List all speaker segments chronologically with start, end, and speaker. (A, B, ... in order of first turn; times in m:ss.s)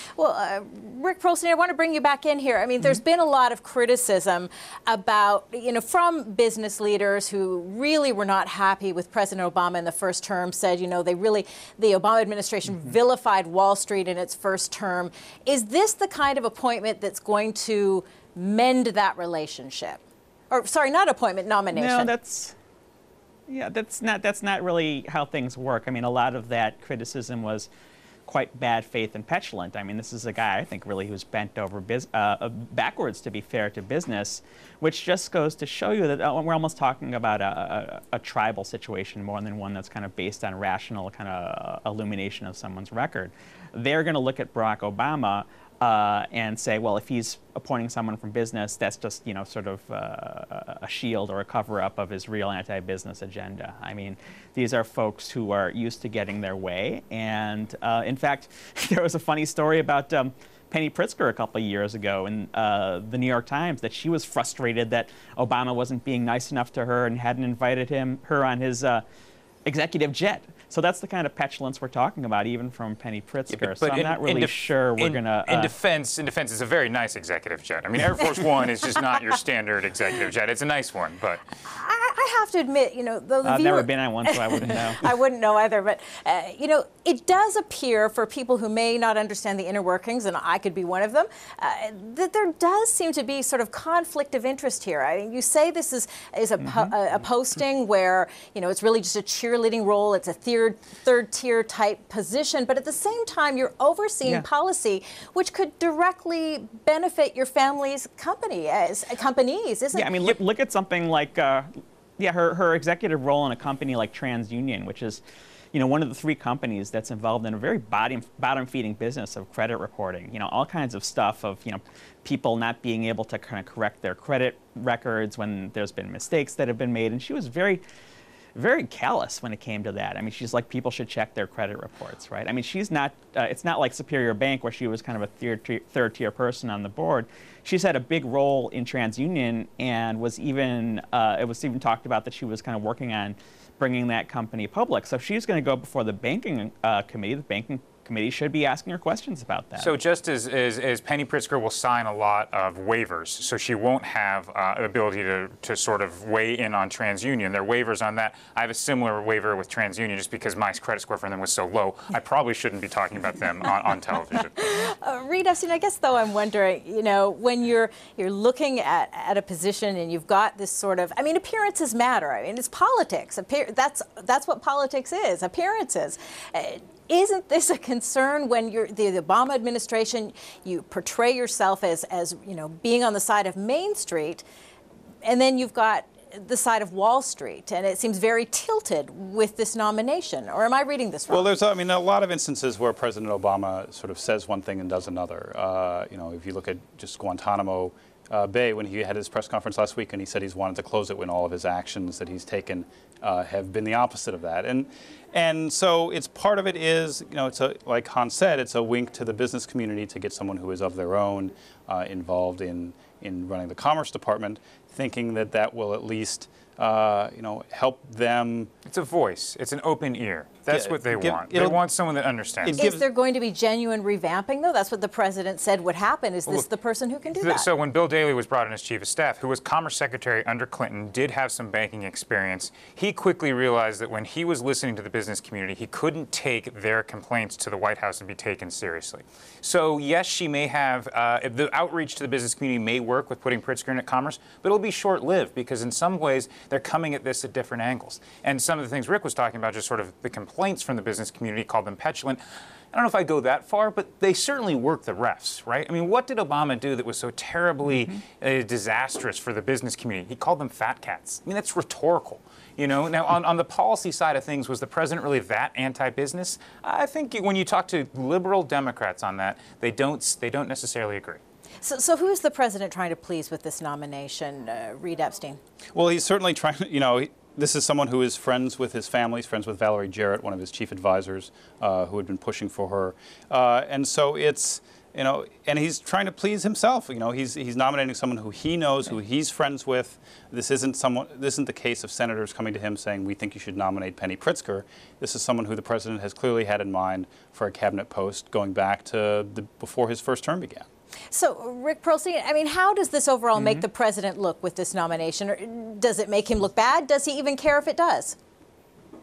0:00.2-0:22.1 A
0:21.7-0:22.5 B
0:23.5-0:27.7 B
0:28.3-1:09.0 B
1:09.6-1:15.7 B
1:13.5-1:21.4 C
1:21.6-1:50.4 A
1:23.4-1:25.0 B
1:36.6-1:36.9 B
1:49.9-1:55.2 B
1:55.7-2:07.8 B
2:08.6-2:29.9 B
2:29.8-2:44.6 C
2:44.6-3:04.4 A
3:05.2-3:11.6 A
3:11.3-3:38.7 D
3:38.8-3:42.8 C
3:40.7-3:41.8 D
3:42.6-3:43.0 D
3:42.8-3:47.7 A
3:47.3-4:12.4 C
4:12.9-4:31.4 C
4:31.8-4:35.6 A
4:35.9-5:00.9 D
5:01.3-5:08.4 A
5:03.6-5:03.8 B